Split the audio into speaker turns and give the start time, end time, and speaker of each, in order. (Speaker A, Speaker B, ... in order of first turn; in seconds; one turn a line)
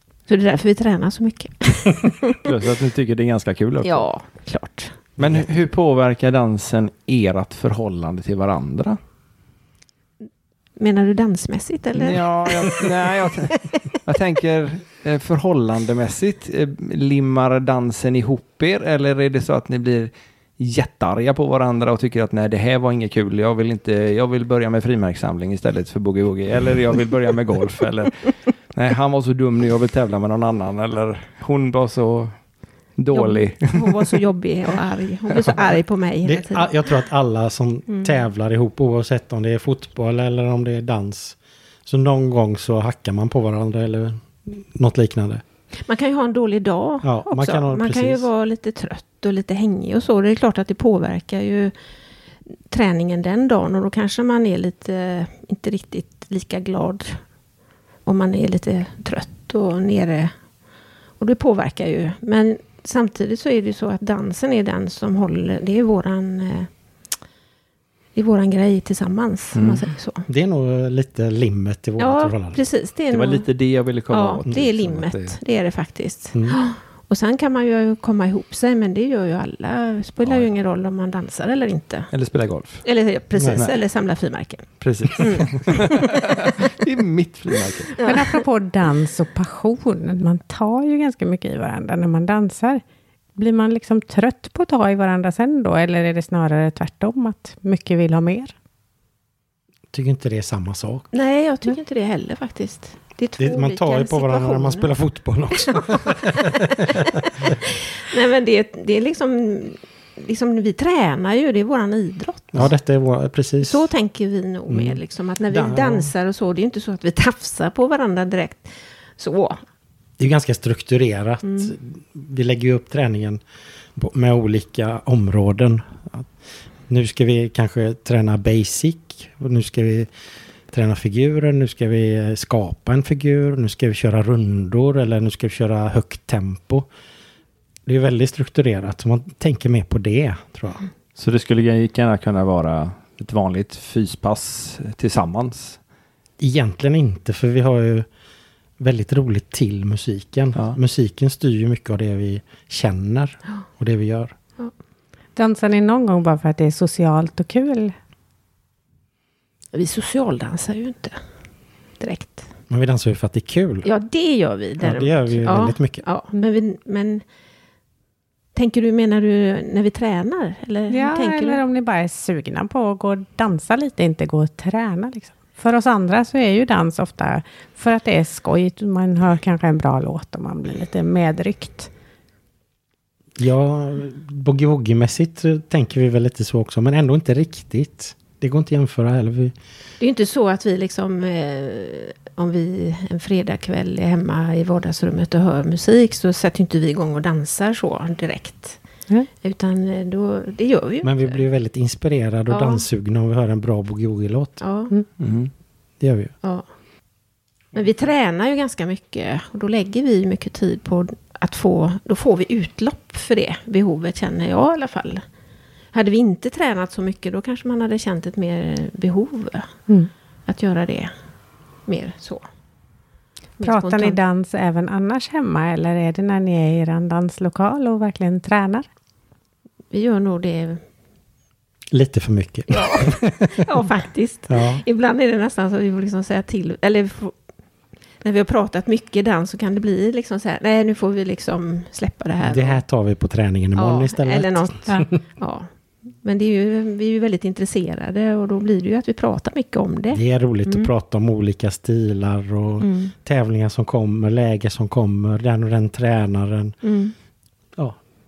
Speaker A: 0.3-2.4
Speaker B: 2.4-4.1
Speaker A: 3.8-5.0
Speaker C: 5.2-5.4
Speaker B: 5.2-9.0
Speaker A: 10.8-12.8
Speaker B: 11.9-32.4
Speaker B: 33.0-34.2
Speaker A: 33.1-36.7
Speaker C: 36.2-45.4
Speaker A: 45.8-51.7
Speaker C: 47.0-48.2
Speaker A: 52.5-57.2
Speaker A: 58.0-60.3
Speaker A: 61.2-66.7
Speaker A: 68.1-70.2
Speaker B: 69.5-69.8
Speaker C: 70.3-72.6
Speaker A: 72.0-73.5
Speaker B: 73.1-75.4
Speaker A: 74.1-82.1
Speaker C: 76.3-76.6
Speaker B: 80.2-80.5
Speaker B: 82.1-82.8
Speaker A: 82.8-86.3
Speaker C: 83.3-83.7
Speaker B: 84.8-88.0
Speaker A: 87.9-88.4
Speaker D: 88.0-92.8
Speaker D: 93.3-98.5
Speaker C: 99.9-101.1
Speaker A: 101.1-104.9
Speaker C: 103.4-107.5
Speaker A: 105.7-112.7
Speaker C: 112.5-113.9
Speaker A: 113.6-119.6
Speaker C: 114.7-116.1
Speaker C: 120.2-123.4
Speaker A: 121.4-121.7
Speaker C: 124.0-126.3
Speaker C: 126.9-130.1
Speaker C: 130.7-136.9
Speaker C: 137.8-140.8
Speaker B: 141.2-145.8
Speaker C: 146.4-148.1
Speaker C: 148.8-154.3
Speaker D: 155.3-157.9
Speaker A: 159.7-161.2
Speaker A: 162.0-162.5
Speaker C: 162.7-163.9
Speaker A: 163.8-167.2
Speaker C: 164.8-166.0
Speaker A: 168.5-171.6
Speaker D: 170.9-181.9
Speaker C: 183.4-189.5
Speaker A: 190.0-198.8
Speaker A: 199.4-201.4
Speaker C: 201.0-204.6
Speaker A: 202.5-202.8
Speaker A: 204.6-204.9
Speaker B: 205.2-205.5
Speaker C: 206.0-206.3
Speaker A: 207.7-215.2
Speaker A: 215.9-219.7
Speaker A: 220.5-221.1
Speaker A: 221.8-222.4
Speaker A: 223.6-224.2
Speaker D: 223.6-228.8
Speaker A: 229.9-230.8
Speaker C: 231.9-233.7
Speaker A: 232.7-237.3
Speaker C: 234.5-234.8
Speaker A: 238.2-242.8
Speaker C: 242.4-245.1
Speaker A: 243.8-245.7
Speaker A: 246.2-250.9
Speaker C: 250.1-256.8
Speaker A: 252.8-253.1
Speaker A: 256.8-257.1